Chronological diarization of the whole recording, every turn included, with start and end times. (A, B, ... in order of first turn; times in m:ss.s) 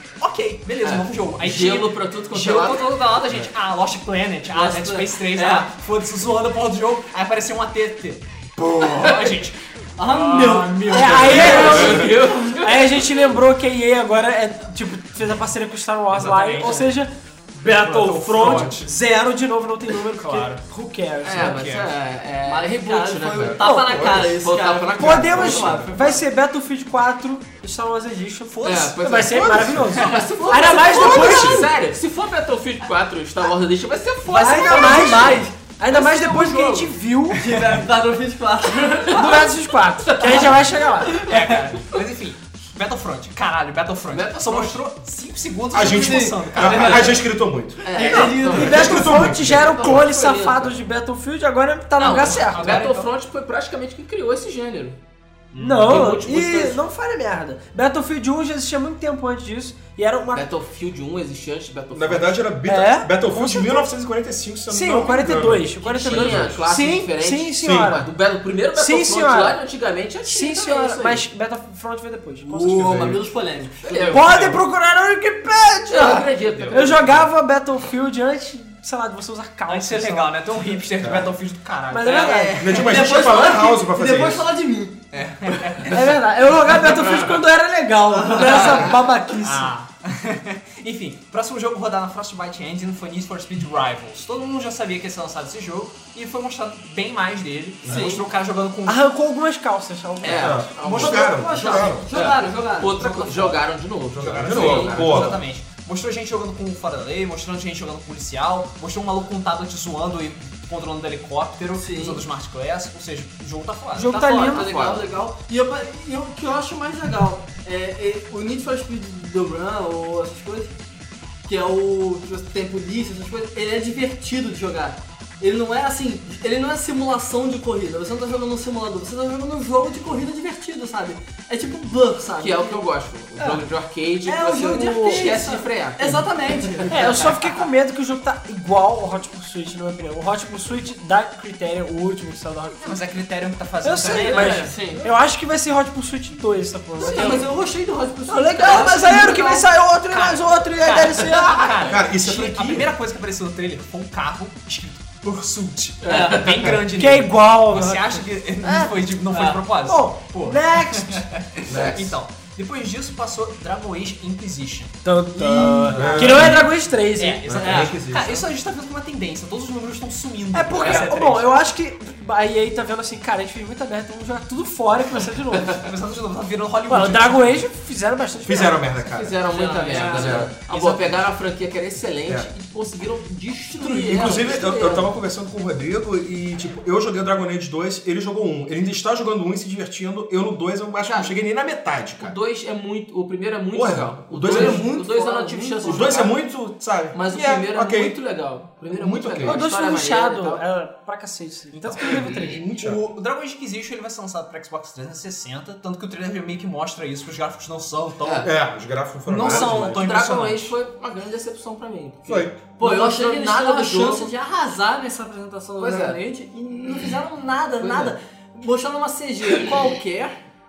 0:00.2-0:12.0 A
0:00.8-0:03.0 B
0:04.5-0:05.7 C
0:10.0-0:12.6 C
0:10.9-0:21.6 D
0:11.2-0:12.9 B
0:11.5-0:12.1 E
0:16.1-0:16.9 A
0:17.7-0:18.9 A
0:20.2-0:20.6 A
0:21.2-0:26.1 B
0:21.3-0:21.9 A
0:22.4-0:26.2 C
0:23.3-0:24.4 E
0:23.6-0:24.1 D
0:25.0-0:31.7 D
0:25.4-0:26.0 E
0:28.5-0:29.0 A
0:28.6-0:36.8 B
0:29.3-0:29.9 E
0:29.9-0:30.3 A
0:30.4-0:31.3 C
0:31.0-0:31.7 E
0:34.3-0:36.8 C
0:34.3-0:37.6 D
0:37.4-0:39.6 C
0:39.1-0:41.3 D
0:40.1-0:40.5 C
0:41.2-0:47.2 A
0:44.1-0:44.8 B
0:45.7-0:49.8 E
0:45.9-0:47.2 C
0:47.8-0:49.2 C
0:47.8-0:50.8 B
0:48.0-0:48.4 A
0:48.5-0:53.1 D
0:52.0-0:55.0 B
0:52.0-0:52.9 A
0:55.5-0:56.2 A
0:55.6-1:00.4 D
0:55.8-0:56.8 B
1:00.3-1:02.4 B
1:01.9-1:06.6 E
1:02.6-1:03.9 D
1:04.7-1:08.0 D
1:05.9-1:11.2 B
1:07.6-1:08.0 E
1:08.7-1:09.6 D
1:10.2-1:13.2 D
1:12.4-1:14.3 C
1:12.7-1:13.2 E
1:13.8-1:14.3 B
1:14.1-1:20.4 D
1:15.9-1:17.2 B
1:16.7-1:17.2 E
1:19.7-1:22.9 A
1:21.0-1:21.3 E
1:21.9-1:22.9 D
1:22.3-1:24.5 E
1:22.7-1:25.0 C
1:25.1-1:26.1 A
1:25.8-1:29.7 D
1:28.2-1:29.0 C
1:28.4-1:28.8 A
1:29.4-1:39.0 A
1:37.8-1:38.1 E
1:37.9-1:38.2 D
1:38.8-1:40.7 D
1:40.2-1:41.3 B
1:40.3-1:42.1 E
1:40.8-1:41.9 A
1:40.9-1:43.6 C
1:42.1-1:45.4 B
1:44.1-1:45.4 E
1:44.2-1:54.2 A
1:51.7-1:52.2 C
1:53.9-1:55.0 D
1:54.0-2:00.7 C
1:54.5-1:55.0 B
2:01.4-2:12.8 C
2:12.4-2:16.9 B
2:13.4-2:13.6 C
2:14.2-2:17.2 C
2:14.6-2:15.3 D
2:16.9-2:23.0 D
2:22.8-2:24.7 A
2:23.8-2:27.5 D
2:24.1-2:25.0 B
2:24.2-2:25.0 C
2:27.0-2:29.7 C
2:27.0-2:27.4 B
2:28.2-2:31.8 D
2:30.1-2:44.9 A
2:31.8-2:32.9 E
2:36.0-2:36.7 B
2:36.9-2:38.2 D
2:39.8-2:41.3 D
2:41.6-2:42.0 B
2:41.7-2:42.1 E
2:45.0-2:47.9 D
2:45.4-2:46.6 E
2:45.6-2:51.6 A
2:47.5-2:48.4 E
2:50.5-2:55.8 D
2:50.7-2:51.1 B
2:55.8-2:57.7 A
2:56.9-2:58.9 D
2:58.4-2:59.4 E
2:59.1-3:05.1 B
2:59.5-3:00.4 C
2:59.5-3:01.1 A
3:03.8-3:04.4 C
3:04.1-3:12.4 E
3:11.0-3:11.3 B
3:12.2-3:16.4 B
3:13.7-3:14.9 E
3:14.4-3:16.3 C
3:15.8-3:18.2 E
3:17.1-3:20.6 B
3:18.9-3:19.6 E
3:19.4-3:22.6 D
3:21.7-3:28.5 A
3:22.2-3:23.0 E
3:28.2-3:28.5 B
3:28.4-3:30.0 E
3:29.2-3:30.7 A
3:29.4-3:34.3 B
3:32.2-3:32.6 E
3:32.8-3:40.3 C
3:35.8-3:36.2 B
3:37.8-3:38.1 B
3:39.5-3:39.8 B